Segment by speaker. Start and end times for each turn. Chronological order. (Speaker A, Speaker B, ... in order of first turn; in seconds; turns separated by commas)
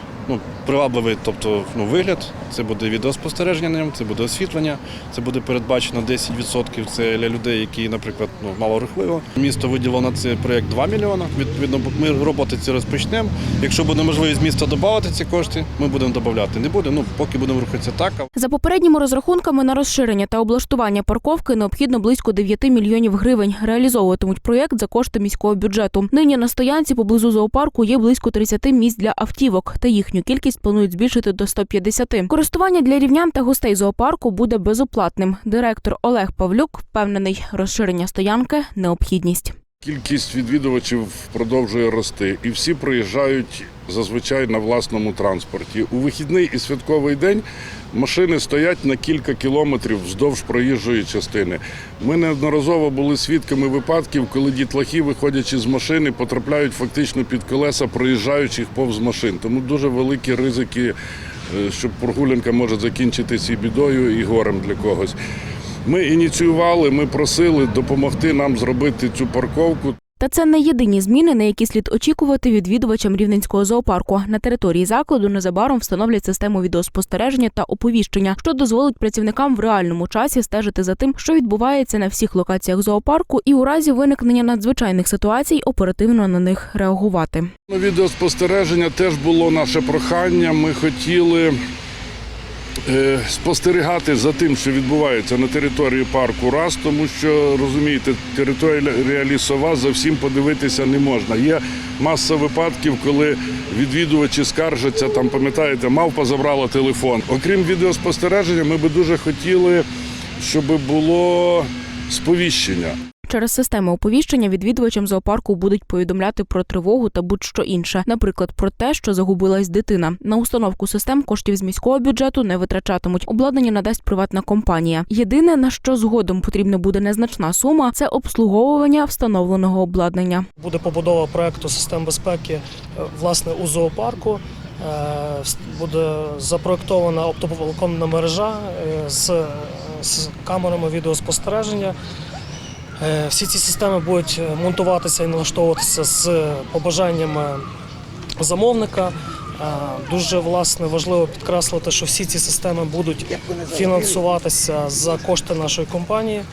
Speaker A: 0.3-18.2, Speaker B: 18.3-39.5, Speaker C: 39.8-61.0, Speaker C: 61.5-65.2, Speaker C: 65.8-70.0, Speaker B: 70.2-87.5, Speaker C: 87.7-91.6, Speaker C: 92.9-109.8, Speaker C: 110.4-113.0, Speaker B: 113.3-130.5, Speaker D: 130.6-141.9, Speaker D: 143.0-147.6, Speaker D: 148.4-156.4